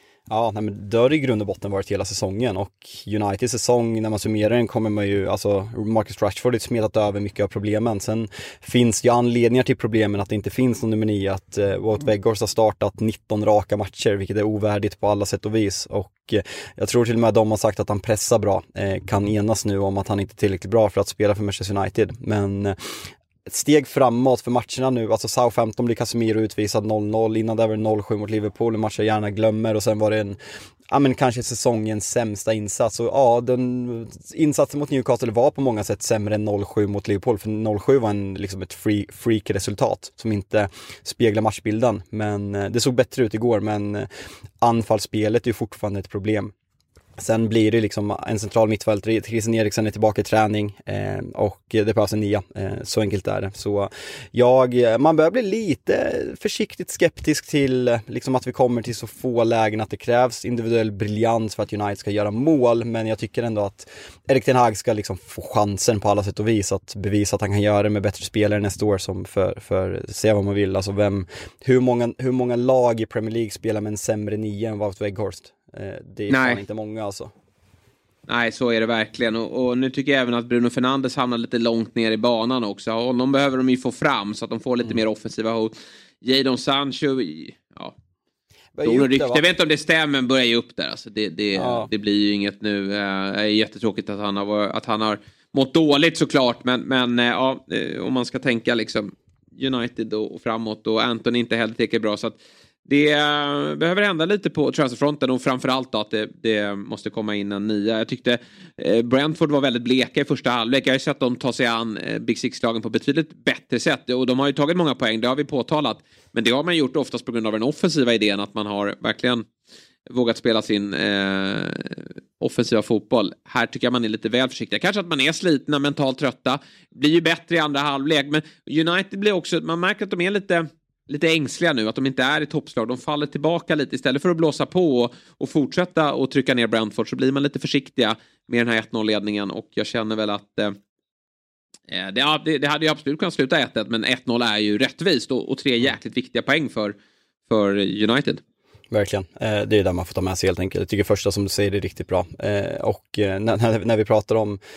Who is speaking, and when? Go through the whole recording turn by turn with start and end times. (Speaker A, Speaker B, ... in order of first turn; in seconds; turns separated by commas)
Speaker A: 0.3-22.7, Speaker A: 23.4-30.4, Speaker A: 30.9-44.1, Speaker A: 44.6-46.5, Speaker A: 47.2-77.3, Speaker B: 76.3-76.6, Speaker B: 78.3-87.9, Speaker A: 88.7-89.5, Speaker B: 88.8-119.5, Speaker A: 91.5-91.9, Speaker B: 120.1-140.8, Speaker B: 141.9-146.9, Speaker B: 147.5-148.4, Speaker A: 148.9-154.6